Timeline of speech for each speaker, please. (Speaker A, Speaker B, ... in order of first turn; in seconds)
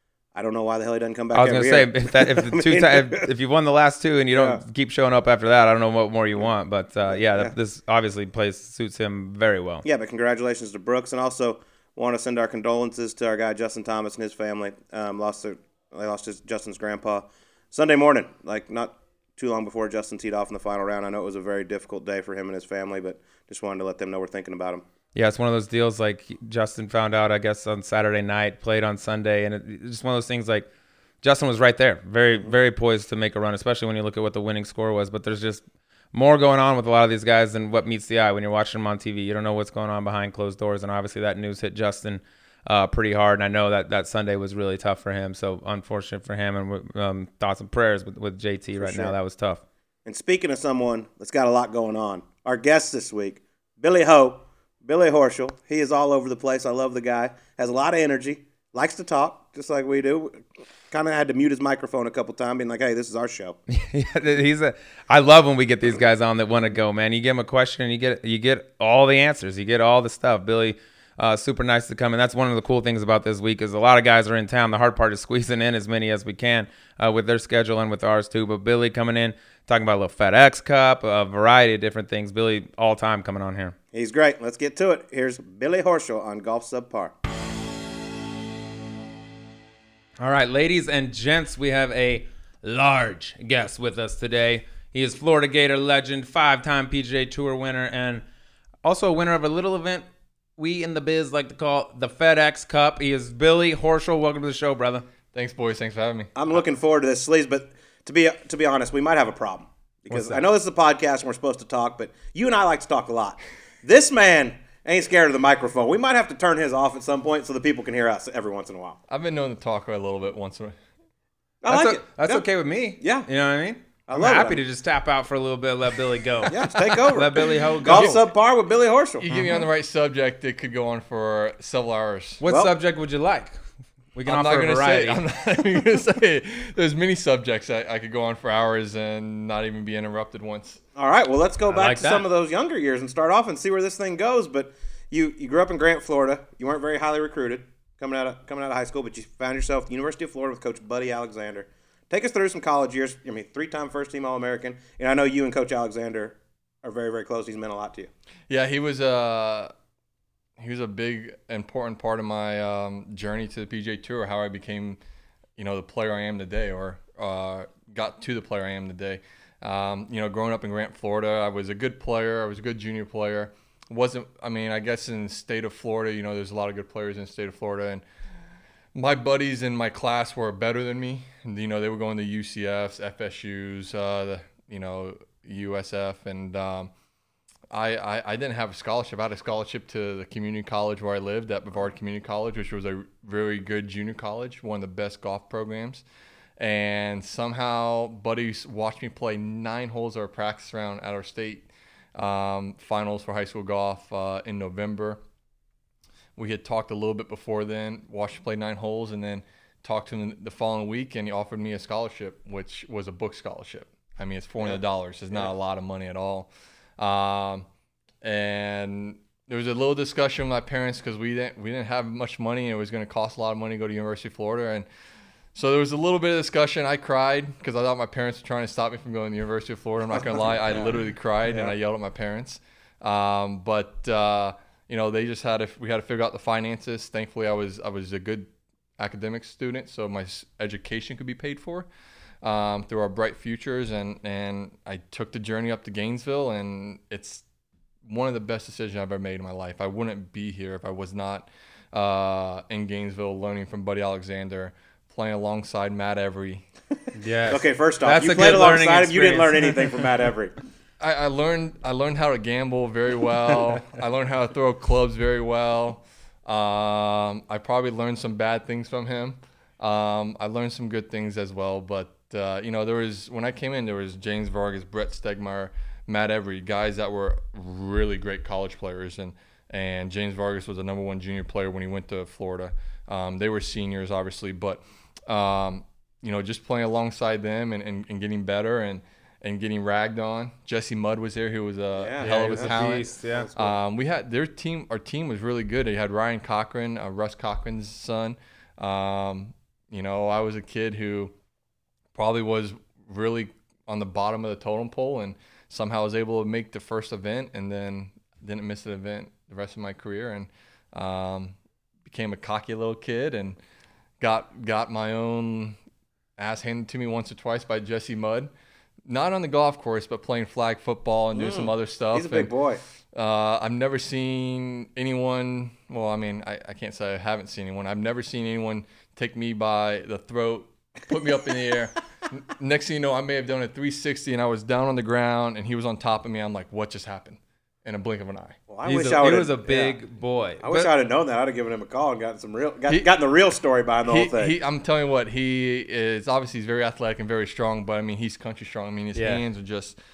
Speaker A: 0.3-3.3, 4.3-4.6, 7.1-7.5, 9.8-24.9, 48.8-49.1, 50.1-63.6, 83.9-87.1, 106.4-119.0, 121.6-122.5, 123.0-123.3, 124.1-124.6, 126.5-129.3, 132.5-132.7, 140.9-158.1, 231.5-231.7, 257.5-260.6, 292.0-293.8, 321.3-322.8, 338.7-340.0, 340.6-344.6
Speaker B: 1.3-9.8, 25.1-30.7, 31.2-49.6, 63.7-83.8, 90.2-98.2, 98.8-100.1, 100.6-105.0, 110.1-110.5, 121.7-128.2, 129.3-129.6, 132.4-133.6, 134.1-135.2, 141.7-142.3, 257.2-260.0, 292.2-293.5, 338.9-340.9, 349.1-349.4
Speaker C: 105.3-106.3, 119.1-120.8, 127.9-128.2, 129.2-132.4, 134.3-140.8, 158.5-159.7, 160.6-165.0, 165.6-178.0, 178.9-186.9, 187.7-196.1, 196.6-205.2, 206.4-217.7, 218.2-224.9, 225.6-241.9, 242.4-247.4, 248.0-256.7, 261.0-301.4, 302.1-313.6, 314.2-315.8, 316.4-318.5, 319.1-322.5, 323.1-338.6, 344.1-350.0